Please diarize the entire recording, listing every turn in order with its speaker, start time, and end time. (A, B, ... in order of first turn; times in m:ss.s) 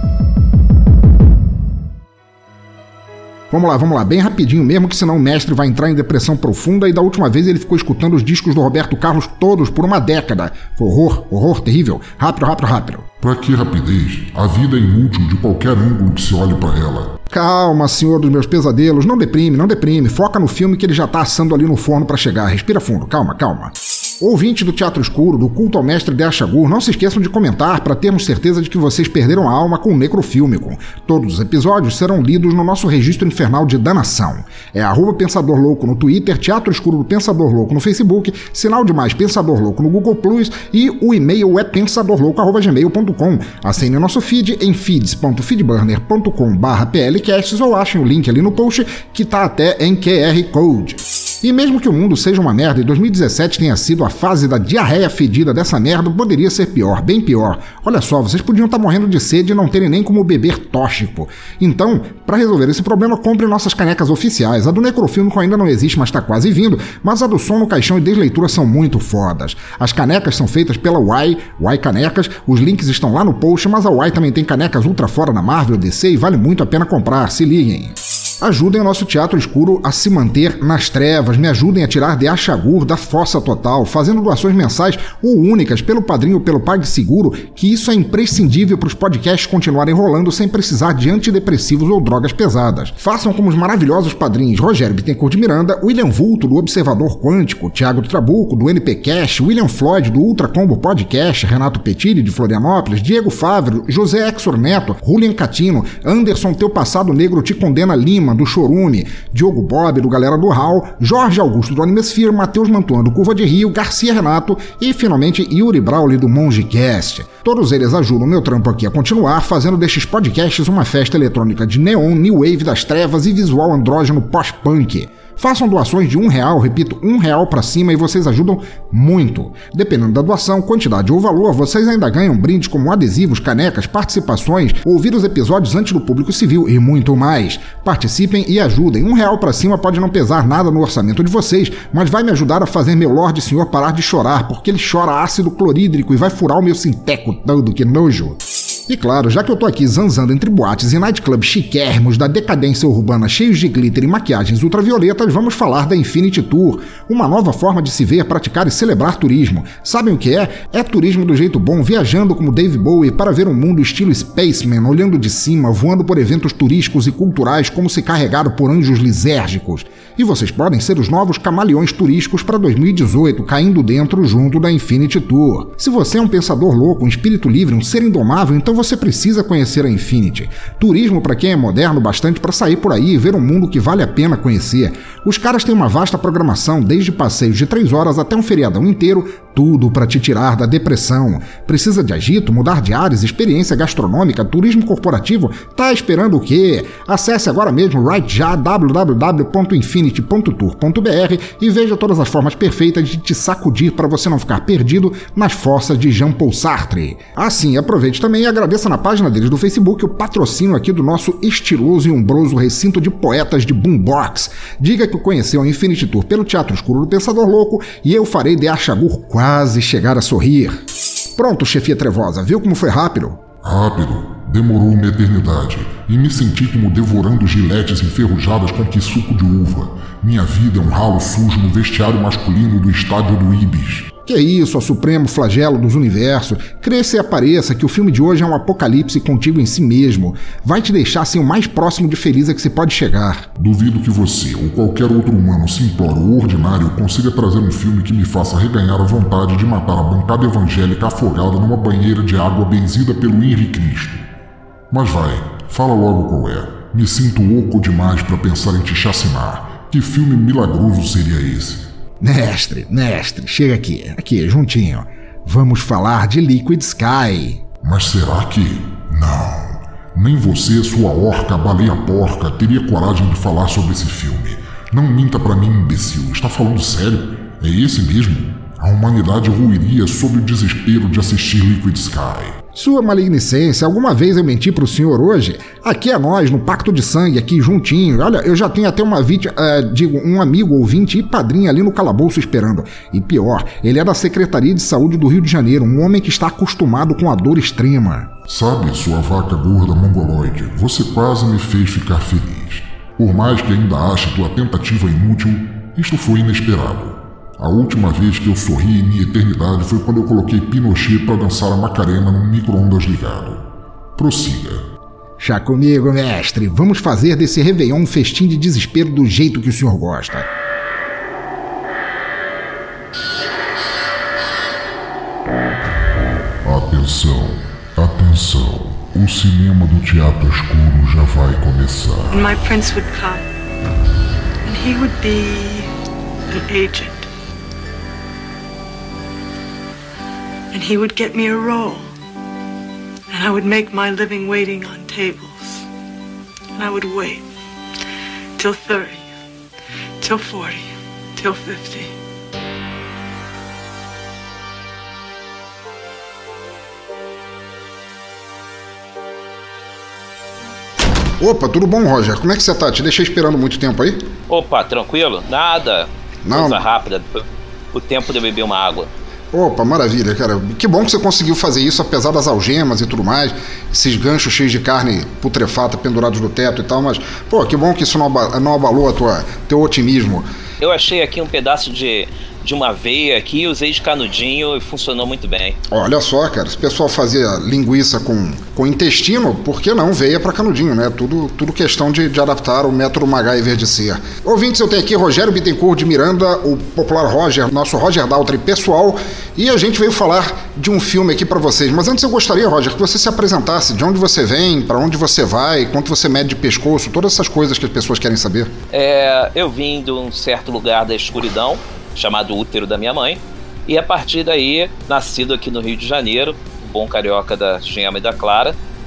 0:03.5-0:13.1 A
0:13.2-0:17.2 B
0:17.3-3:40.8 A
3:41.4-3:43.4 A
3:43.6-3:54.1 B
3:54.3-4:03.5 A
4:03.6-4:14.2 B
4:14.9-4:21.9 B
4:22.2-4:27.6 A
4:27.8-4:42.6 B
4:42.8-4:58.3 A
4:58.5-5:13.6 B
5:14.2-5:14.8 B
5:15.4-5:20.5 A
5:26.6-5:32.5 B
5:32.3-5:33.4 C
5:34.6-5:35.9 C
5:36.5-5:37.3 C
5:40.7-5:42.1 C
5:43.3-5:45.9 C
5:46.8-5:47.4 C
5:48.6-5:49.2 C
5:50.2-5:52.1 C
6:01.4-6:04.3 A
6:04.5-6:09.1 D
6:06.4-6:06.8 A
6:09.5-6:20.5 A
6:20.8-6:25.8 D
6:25.9-6:48.7 A
6:48.9-6:58.8 D